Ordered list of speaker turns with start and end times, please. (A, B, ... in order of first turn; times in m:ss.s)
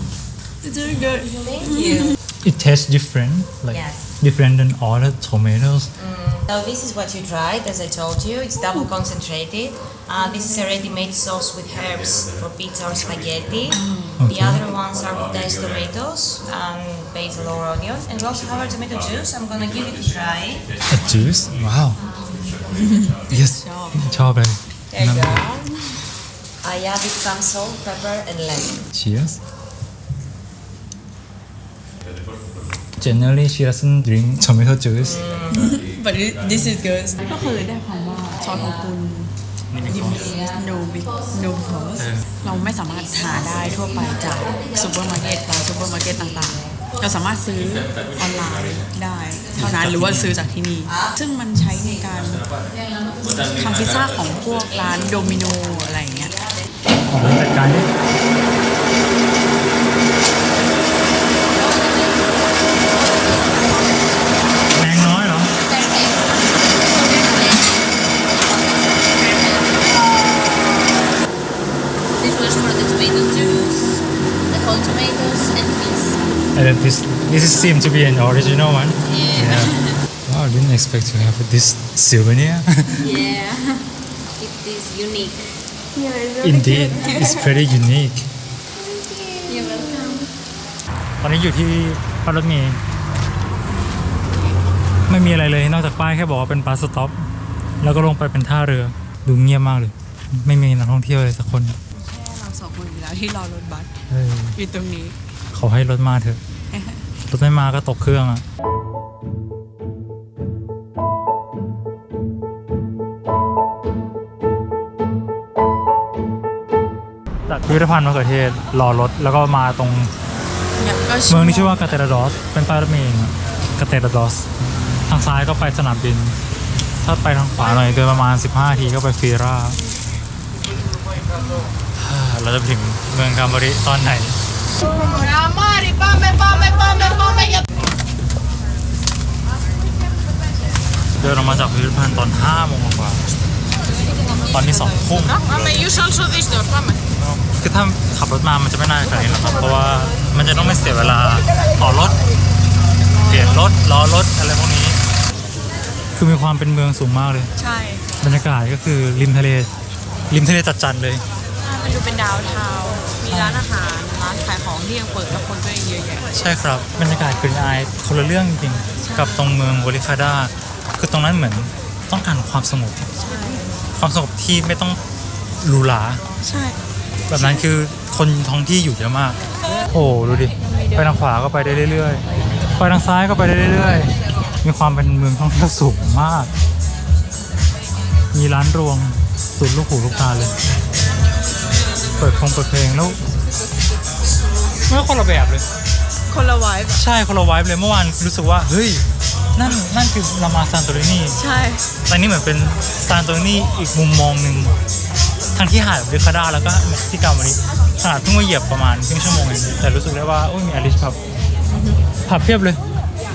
0:00.6-0:02.2 A
0:01.3-0:02.2 B
0:02.4-0:05.9 C
0:03.7-0:04.0 B
0:06.0-0:20.7 B
0:13.7-0:14.2 A
0:14.2-0:14.6 C
0:20.9-0:22.0 C
0:22.7-0:24.3 A
0:23.3-0:25.4 C
0:24.9-0:25.7 B
0:26.6-0:28.9 B
0:28.9-0:29.4 C
0:33.0-0:35.2 C
0:35.0-0:35.7 B
0:35.5-0:39.3 A
0:39.7-0:40.4 C
0:39.9-0:52.4 A
0:42.0-0:42.4 C
0:49.6-0:50.5 C
0:53.2-0:56.4 A
0:57.1-0:57.9 C
1:03.1-1:04.1 A
1:04.7-1:05.5 C
1:05.6-1:07.8 A
1:09.1-1:09.8 A
1:12.3-1:14.0 A
1:14.5-1:16.2 A
1:16.5-1:23.1 C
1:19.1-1:20.0 A
1:23.0-1:23.6 A
1:24.4-1:25.4 B
1:25.9-1:27.5 A
1:26.4-1:28.3 C
1:28.8-1:30.3 A
1:29.6-1:30.2 B
1:31.2-1:32.8 C
1:35.1-1:37.2 C
1:37.8-1:41.8 C
1:41.9-1:43.9 A
1:44.1-1:44.6 C
1:44.6-1:45.2 A
1:45.5-1:46.4 C
1:46.7-1:47.0 A
1:47.3-1:48.4 C
1:57.5-2:00.1 C
2:00.8-2:02.0 A
2:01.3-2:04.5 C
2:05.1-2:06.4 C
2:07.0-2:09.8 C
2:12.0-2:14.4 C
2:14.8-2:17.6 A
2:21.2-2:23.3 C
2:24.2-2:24.5 A
2:24.5-2:25.4 C
2:25.4-2:26.9 A
2:27.5-2:32.2 C
2:33.1-2:33.8 A
2:33.3-2:35.0 C
2:36.2-2:37.5 C
2:37.6-2:38.1 A
2:38.2-2:39.7 C
2:40.3-2:41.2 C
2:41.6-2:46.3 A
2:43.3-2:43.6 C
2:46.3-2:53.1 C
2:49.0-2:49.5 A
2:53.2-2:53.8 A
2:53.9-2:55.0 C
2:55.6-2:56.2 C
2:56.4-2:56.8 A
2:57.3-3:02.2 C
2:57.3-2:57.6 A
3:00.6-3:01.2 A
3:02.8-3:06.5 C
3:08.3-3:10.6 C
3:12.2-3:13.2 C
3:14.9-3:15.6 C
3:16.3-3:17.0 A
3:16.9-3:21.4 C
3:21.4-3:21.8 A
3:22.1-3:24.7 C
3:25.5-3:31.2 C
3:31.6-3:32.0 A
3:32.3-3:32.8 C